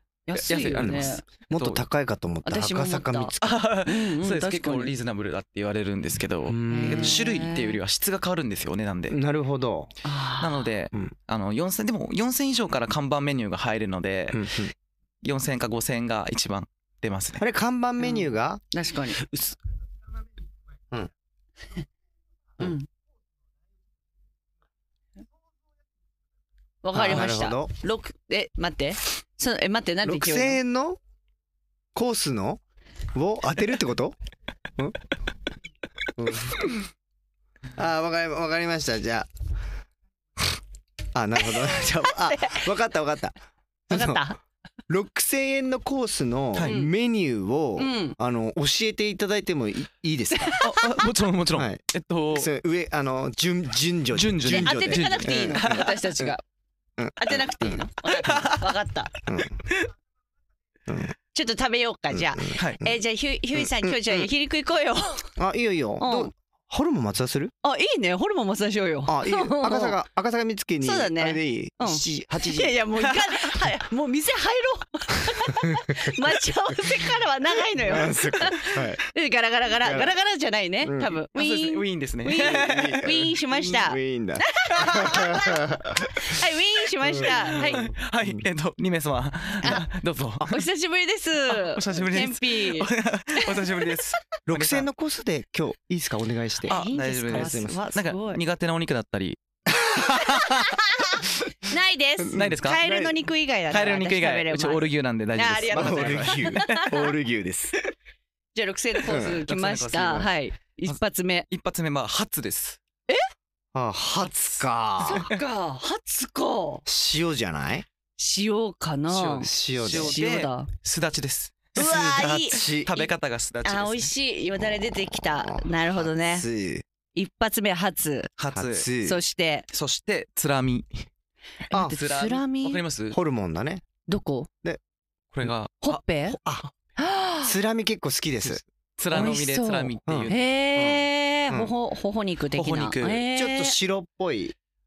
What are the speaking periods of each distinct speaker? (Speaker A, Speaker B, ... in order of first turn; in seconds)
Speaker A: 0.3-1.2, 2.4-3.3, 3.8-4.9, 6.7-7.8, 10.0-10.7, 18.0-19.2, 22.6-22.9, 26.8-30.6, 41.5-42.6, 43.9-44.4, 46.6-46.9, 47.8-48.2, 50.3-51.0, 54.5-56.4, 57.2-59.1, 61.3-65.3, 66.0-66.3, 67.6-70.0, 70.8-87.9, 90.4-94.0, 96.7-98.4, 100.1-106.9, 108.5-111.5, 115.0-116.8, 118.2-120.7, 121.7-123.1, 123.6-126.5, 127.1-128.3, 129.0-129.7, 131.7-132.8, 134.1-134.5, 135.8-136.4, 137.0-137.5, 139.1-143.8
Speaker B: 0.3-1.8, 3.4-9.2, 10.4-14.6, 15.2-17.4, 50.6-52.5, 54.1-56.0, 58.2-58.5, 81.3-83.3, 84.8-85.1, 87.3-90.6, 91.5-94.9, 96.7-99.4, 102.3-102.8, 103.7-106.9, 109.1-110.3, 110.8-112.8, 119.1-124.1, 128.4-128.9, 129.7-131.1, 131.8-133.2, 135.3-136.0, 138.4-140.5, 142.5-143.2
Speaker C: 0.7-3.6, 6.5-7.2, 9.1-9.9, 14.3-14.7, 17.4-18.6, 26.9-27.7, 30.0-31.0, 31.9-32.6, 33.1-34.1, 36.1-36.7, 37.7-39.3, 41.1-43.4, 43.9-44.3, 44.9-50.6, 51.5-51.8, 52.3-56.3, 57.0-57.8, 59.3-59.6, 60.9-61.1, 62.1-63.0, 63.5-64.3, 65.4-67.5, 69.1-72.7, 77.9-79.0, 79.8-80.1, 80.8-81.1, 82.4-86.2, 87.1-88.4, 94.5-96.8, 97.3-97.8, 99.8-100.8, 102.2-103.1, 105.7-107.8, 109.1-109.4, 113.7-115.2, 116.8-117.8, 119.4-120.2, 121.8-122.9, 125.1-126.8, 128.5-129.2, 131.7-132.0, 133.1-133.8, 136.3-136.7, 137.4-138.6, 140.1-141.7, 143.3-144.5